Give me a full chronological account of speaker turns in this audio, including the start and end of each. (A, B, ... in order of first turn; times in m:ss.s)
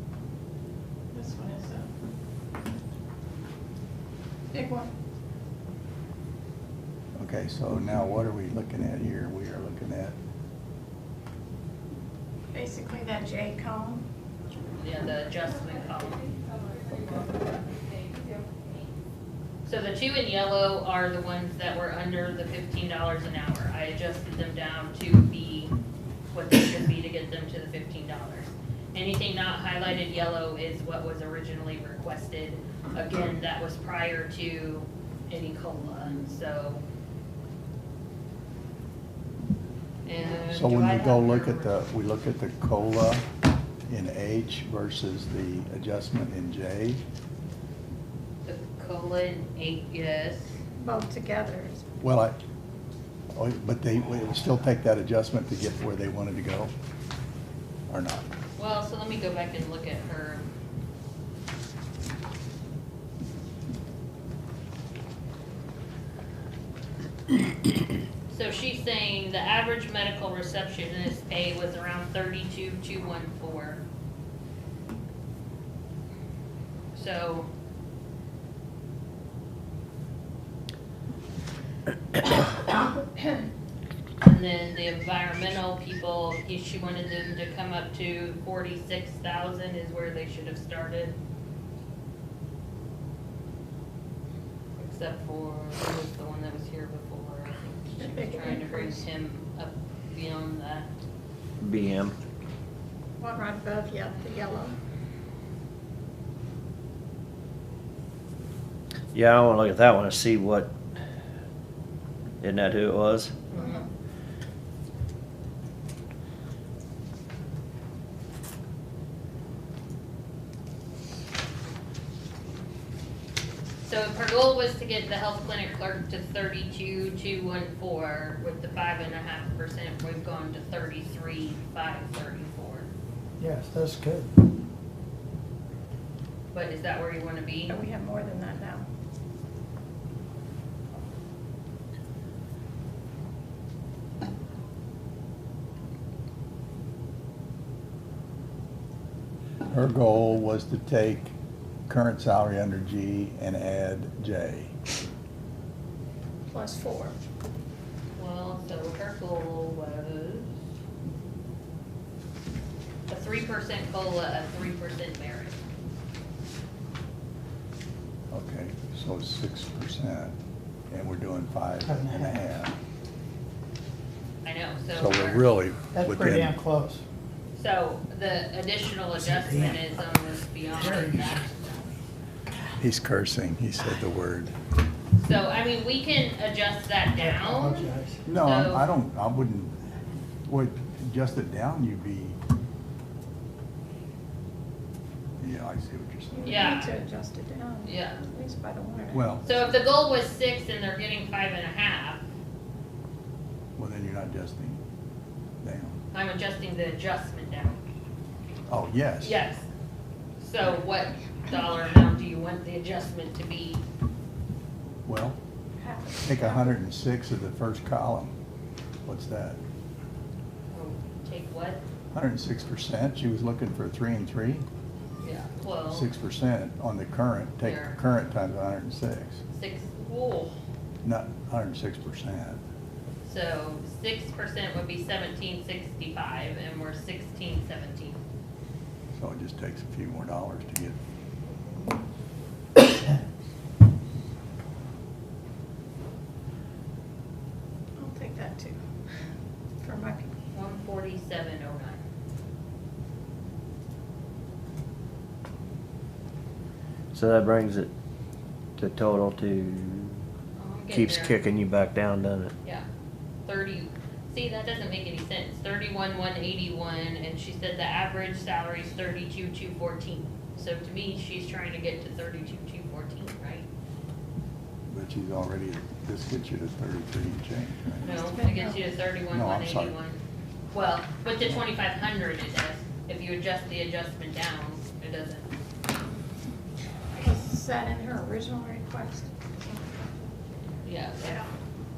0:01.1-0:01.9 A
0:04.5-0:04.9 A
0:07.2-0:10.2 B
0:12.5-0:14.0 A
0:14.8-0:16.3 C
0:19.6-0:25.7 C
0:26.3-0:36.8 C
0:40.0-0:41.7 C
0:40.5-0:43.2 B
0:43.9-0:47.0 B
0:48.4-0:50.6 C
0:50.8-0:51.8 A
0:52.0-0:52.4 B
0:53.3-0:56.7 B
0:57.9-0:58.3 B
0:58.6-1:00.4 C
1:08.3-1:13.8 C
1:16.9-1:17.5 C
1:24.2-1:31.1 C
1:34.8-1:40.9 C
1:38.0-1:39.0 A
1:41.6-1:42.1 D
1:43.2-1:44.7 A
1:49.1-1:50.7 D
1:52.4-1:53.3 D
1:53.5-1:53.8 C
1:53.5-1:53.8 A
2:03.8-2:12.9 C
2:13.4-2:14.3 E
2:16.5-2:17.7 C
2:17.7-2:18.9 A
2:29.6-2:31.3 B
2:31.9-2:34.7 B
2:36.5-2:37.2 A
2:38.2-2:40.5 C
2:43.1-2:45.6 C
2:48.3-2:50.3 B
2:50.9-2:52.7 B
2:51.8-2:52.3 E
2:54.4-2:55.5 C
2:54.9-2:56.5 B
2:55.9-2:57.0 E
2:57.5-3:01.9 C
2:59.2-2:59.8 E
3:00.7-3:01.4 E
3:02.8-3:04.5 B
3:05.2-3:08.9 C
3:07.2-3:08.2 E
3:08.2-3:09.7 B
3:10.5-3:12.4 B
3:15.4-3:16.7 B
3:16.3-3:19.4 A
3:16.4-3:17.0 C
3:17.8-3:18.2 C
3:19.1-3:19.4 B
3:19.4-3:22.2 C
3:23.8-3:24.8 B
3:25.6-3:26.0 B
3:26.1-3:27.8 C
3:28.7-3:29.4 B
3:29.2-3:29.6 C
3:30.4-3:33.8 C
3:35.0-3:35.4 B
3:35.8-3:36.7 A
3:36.2-3:38.3 B
3:39.0-3:39.6 B
3:40.7-3:41.8 C
3:42.1-3:44.6 B
3:45.2-3:46.1 C
3:45.9-3:49.4 B
3:47.6-3:48.0 C
3:49.5-3:50.6 C
3:51.0-3:52.6 B
3:53.2-3:58.2 C
3:59.1-4:01.0 B
4:08.0-4:08.8 A
4:09.8-4:10.3 A
4:10.5-4:12.0 C
4:17.1-4:17.9 D
4:18.8-4:20.2 D
4:20.6-4:21.4 C
4:20.9-4:22.5 D
4:23.4-4:33.7 C
4:34.9-4:38.0 B
4:38.0-4:38.9 A
4:38.0-4:40.2 C
4:39.3-4:39.9 B
4:40.7-4:45.5 C
4:47.2-4:50.1 A
4:50.8-4:51.4 C